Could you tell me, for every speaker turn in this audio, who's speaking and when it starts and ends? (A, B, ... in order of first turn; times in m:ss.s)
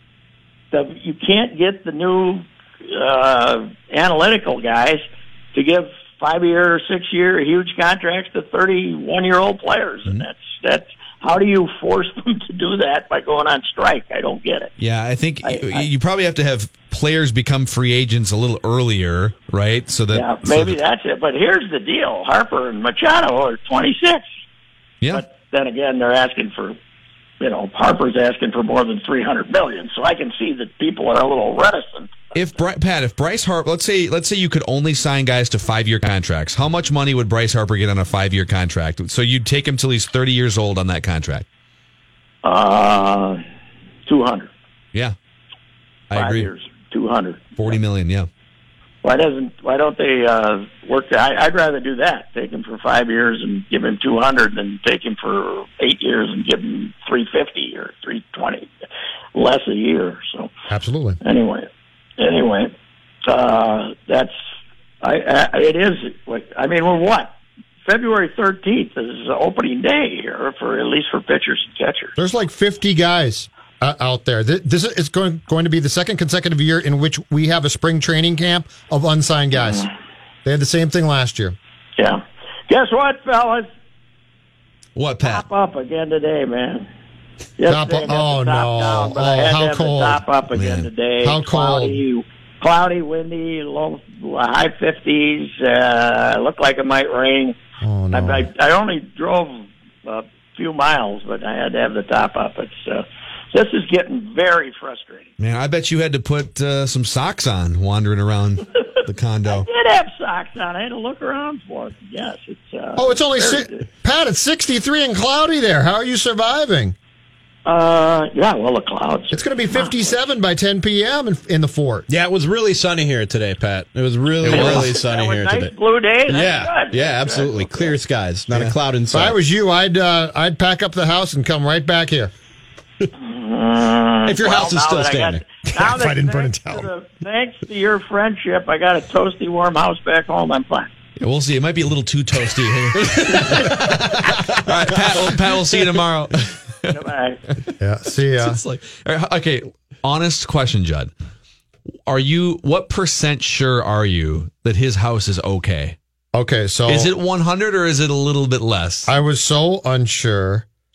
0:00.7-0:05.0 A
0:05.5-0:14.7 A
0:14.8-0:20.8 B
0:15.4-0:15.9 A
0:20.1-0:24.3 A
0:25.1-0:26.8 A
0:27.4-0:32.1 A
0:32.3-0:41.4 B
0:42.4-0:43.4 A
0:44.1-0:44.5 A
0:46.1-0:46.5 B
0:46.1-0:47.8 A
0:47.6-0:48.3 B
0:49.0-0:58.7 A
0:59.4-1:00.5 A
1:00.7-1:01.2 C
1:01.2-1:02.7 A
1:03.3-1:04.3 A
1:05.0-1:12.1 A
1:12.2-1:19.9 C
1:19.6-1:19.9 A
1:20.4-1:21.6 C
1:22.0-1:23.7 A
1:25.0-1:25.4 B
1:25.2-1:26.9 A
1:27.6-1:37.6 A
1:27.7-1:30.2 C
1:30.5-1:30.9 B
1:31.2-1:32.0 C
1:37.8-1:38.5 C
1:38.1-1:45.3 A
1:45.4-1:49.7 B
1:49.4-1:53.9 A
1:53.0-1:57.0 C
1:57.6-2:00.1 A
1:59.3-2:02.1 C
2:02.1-2:05.7 D
2:04.4-2:04.8 B
2:04.4-2:08.0 A
2:06.3-2:09.4 D
2:09.1-2:12.3 C
2:13.2-2:20.9 A
2:14.2-2:15.7 D
2:15.8-2:16.9 C
2:21.2-2:27.0 B
2:23.0-2:24.5 D
2:26.9-2:27.4 A
2:27.8-2:28.6 C
2:28.4-2:31.1 B
2:32.0-2:36.0 B
2:36.3-2:37.1 C
2:36.9-2:39.1 B
2:39.1-2:40.7 C